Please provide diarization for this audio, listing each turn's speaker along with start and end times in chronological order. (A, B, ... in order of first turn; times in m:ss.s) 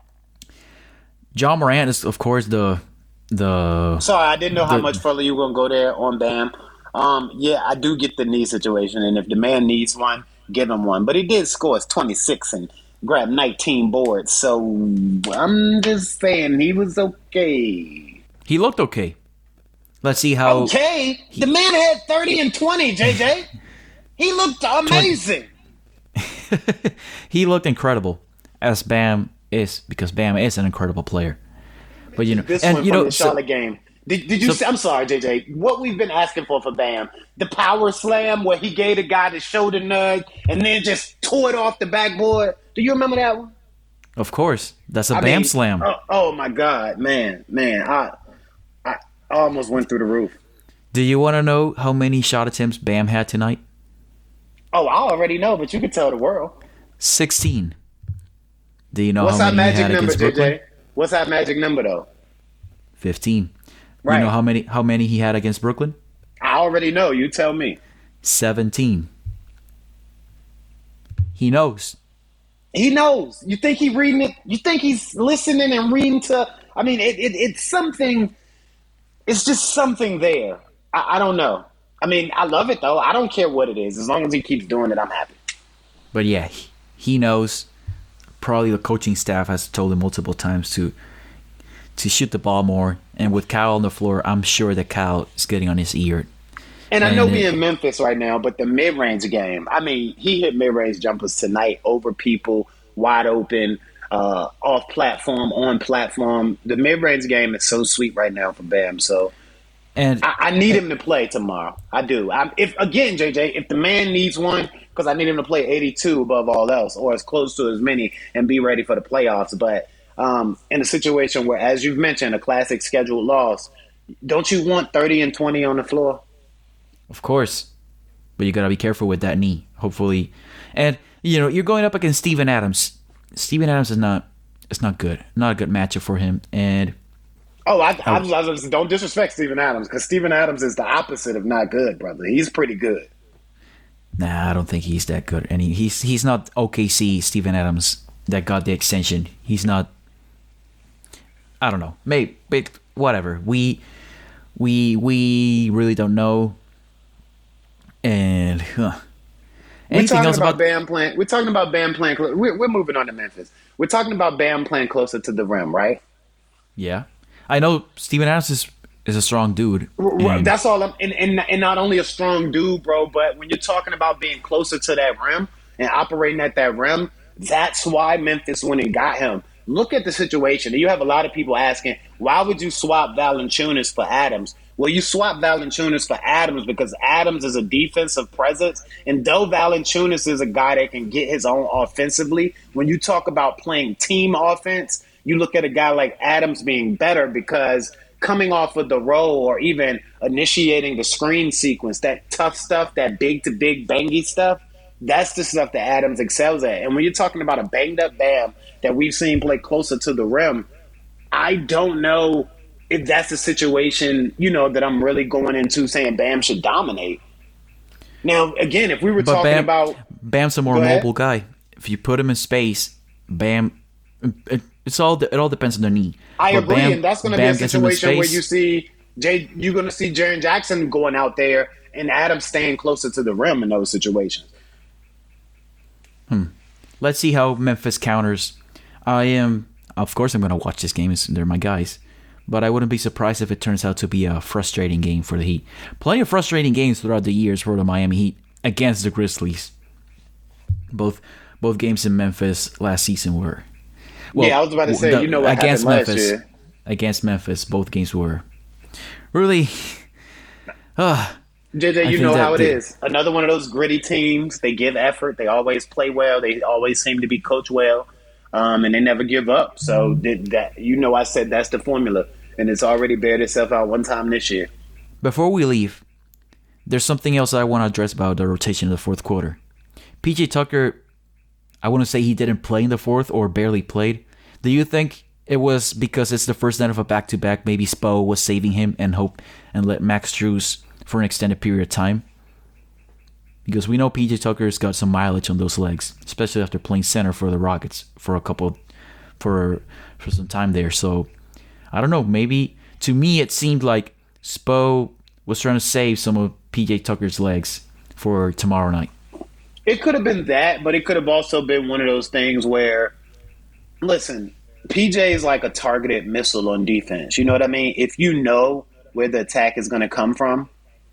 0:01.3-0:04.1 A
0:04.0-0:18.2 B
0:04.6-0:05.0 A
0:18.4-0:19.2 A
0:20.0-0:20.7 A
0:20.4-0:23.5 B
0:24.2-0:25.5 B
0:26.2-0:31.4 A
0:32.2-0:43.5 B
0:32.2-0:33.4 A
0:44.2-0:45.9 A
0:45.1-0:48.1 B
0:48.8-0:50.4 B
0:50.9-0:53.6 A
0:54.7-0:56.5 B
0:57.0-0:57.8 A
0:58.9-1:00.6 A
0:59.2-1:02.1 B
1:03.0-1:03.5 A
1:04.0-1:04.3 B
1:04.0-1:06.0 A
1:06.4-1:07.8 B
1:08.2-1:09.1 A
1:11.4-1:12.0 A
1:12.7-1:18.3 B
1:19.3-1:25.4 B
1:26.1-1:27.7 A
1:28.4-1:30.9 A
1:32.0-1:36.3 A
1:36.9-1:49.3 B
1:37.0-1:37.5 A
1:50.0-1:50.3 A
1:50.2-2:03.7 B
2:04.2-2:06.2 B
2:07.1-2:07.7 A
2:08.4-2:17.0 A
2:17.7-2:23.1 B
2:24.2-2:29.9 A
2:31.6-2:33.8 A
2:34.6-2:36.6 A
2:38.0-2:39.0 A
2:39.9-2:40.6 A
2:39.9-2:46.0 B
2:46.8-2:50.5 A
2:50.0-3:30.7 B
3:31.3-3:37.2 B
3:38.2-3:40.0 B
3:39.2-3:48.4 A
3:40.7-3:41.1 B
3:46.4-3:54.5 B
3:56.3-4:09.7 A
4:10.9-4:13.6 A
4:14.3-4:18.4 A
4:14.3-4:16.4 B
4:19.3-4:20.0 A
4:21.0-4:21.4 A
4:21.7-4:34.7 B
4:22.0-4:22.8 A
4:35.2-4:36.0 A
4:36.8-4:39.6 A
4:40.2-4:41.0 A
4:41.8-4:52.2 A
4:53.6-4:58.8 A
4:59.4-5:01.3 A
5:01.9-5:09.1 A
5:09.8-5:13.1 B
5:14.0-5:20.7 B